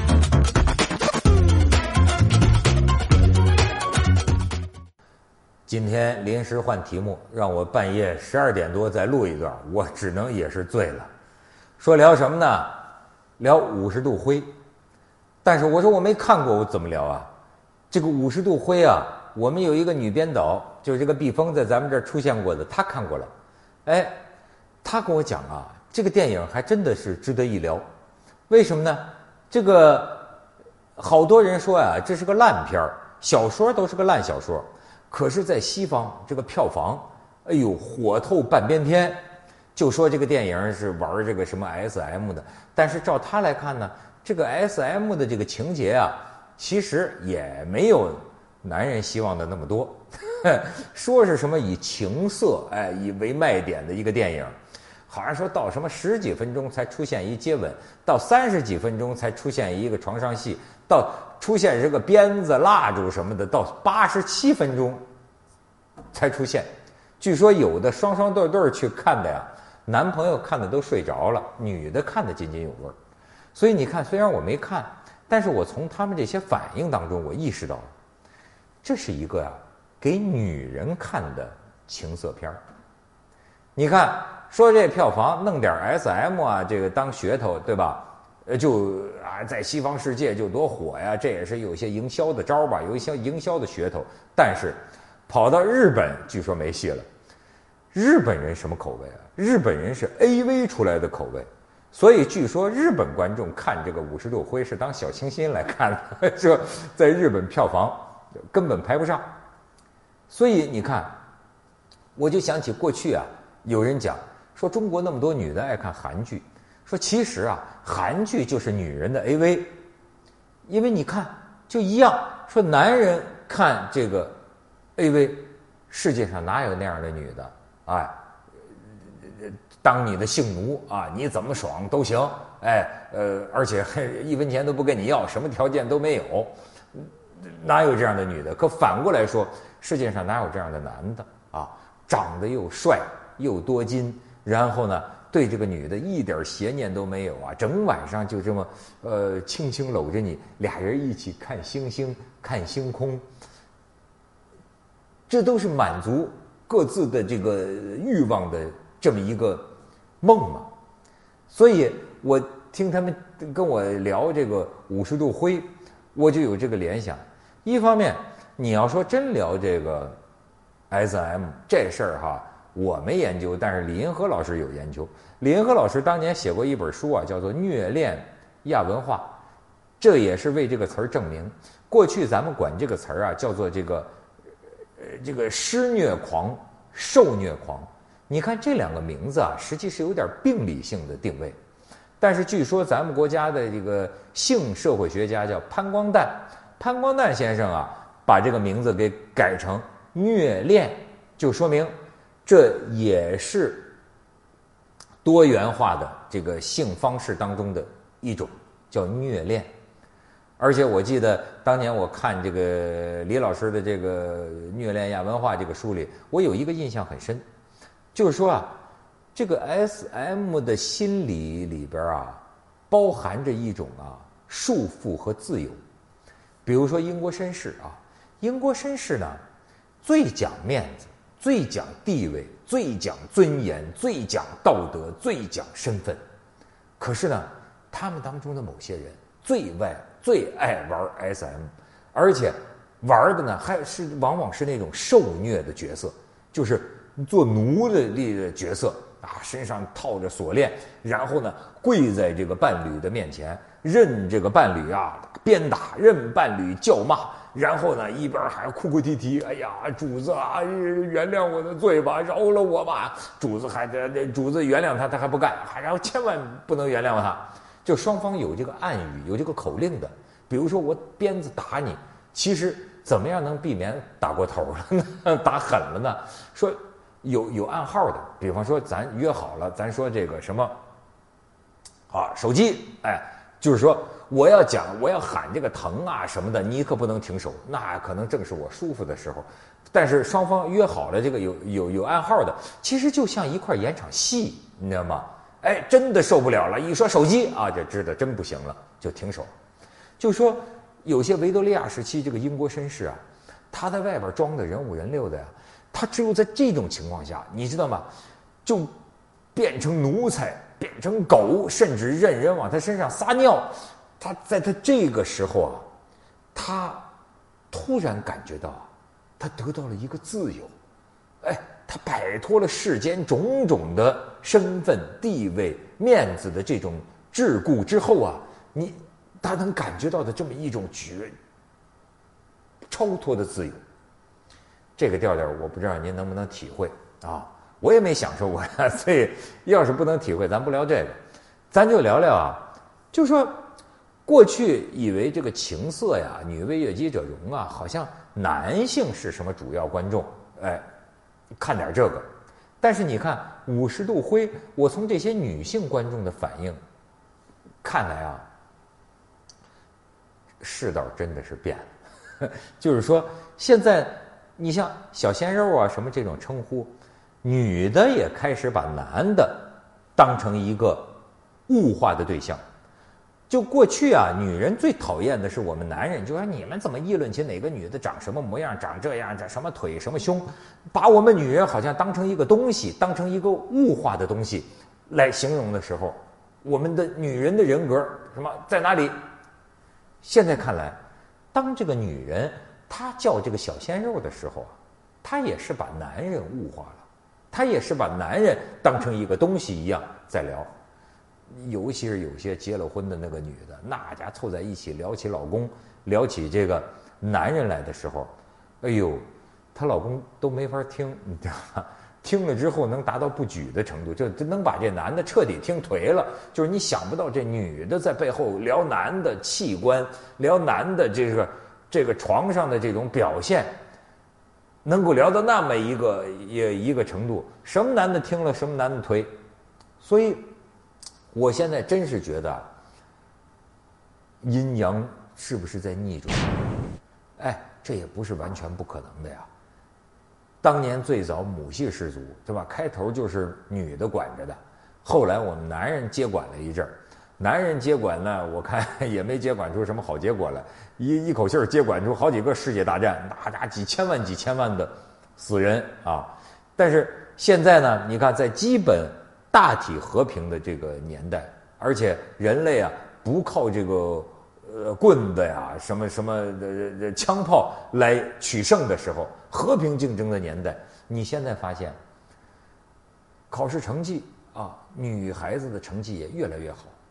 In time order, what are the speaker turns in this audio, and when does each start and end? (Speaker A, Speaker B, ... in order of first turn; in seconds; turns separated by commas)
Speaker A: 5.7-11.1, Speaker A: 11.8-12.8, Speaker A: 13.4-14.5, Speaker A: 15.4-17.3, Speaker A: 17.9-23.3, Speaker A: 23.8-24.2, Speaker A: 24.8-27.9, Speaker A: 28.5-30.3, Speaker A: 31.0-39.2, Speaker A: 39.7-54.5, Speaker A: 55.1-65.0, Speaker A: 66.1-66.7, Speaker A: 67.2-72.9, Speaker A: 73.5-77.9, Speaker A: 78.8-82.6, Speaker A: 83.8-97.0, Speaker A: 97.9-109.2, Speaker A: 110.3-111.2, Speaker A: 112.2-119.7, Speaker A: 120.7-124.4, Speaker A: 125.0-128.1, Speaker A: 129.2-153.2, Speaker A: 155.3-160.7, Speaker A: 161.5-170.2, Speaker A: 170.9-179.4, Speaker A: 180.0-184.1, Speaker A: 185.0-191.6, Speaker A: 192.2-201.9, Speaker A: 202.4-203.9, Speaker A: 205.2-209.7, Speaker A: 210.6-217.4, Speaker A: 218.1-218.8, Speaker A: 219.3-225.8, Speaker A: 226.6-229.4, Speaker A: 230.0-236.2, Speaker A: 237.0-280.8, Speaker A: 282.1-299.5, Speaker A: 300.2-308.1, Speaker A: 308.6-308.9, Speaker A: 309.5-315.9, Speaker A: 316.5-317.1, Speaker A: 317.7-320.7, Speaker A: 321.4-331.3, Speaker A: 332.9-333.8, Speaker A: 335.0-341.2, Speaker A: 341.7-343.6, Speaker A: 344.2-350.8, Speaker A: 351.6-352.2, Speaker A: 352.8-356.8, Speaker A: 357.8-358.4, Speaker A: 360.6-371.1, Speaker A: 371.7-372.6, Speaker A: 373.5-389.1, Speaker A: 390.2-391.0, Speaker A: 391.5-400.7, Speaker A: 401.5-423.7, Speaker A: 424.8-429.3, Speaker A: 430.0-430.5, Speaker A: 431.3-432.6, Speaker A: 434.4-436.6, Speaker A: 437.4-439.5, Speaker A: 440.6-472.0, Speaker A: 473.5-476.9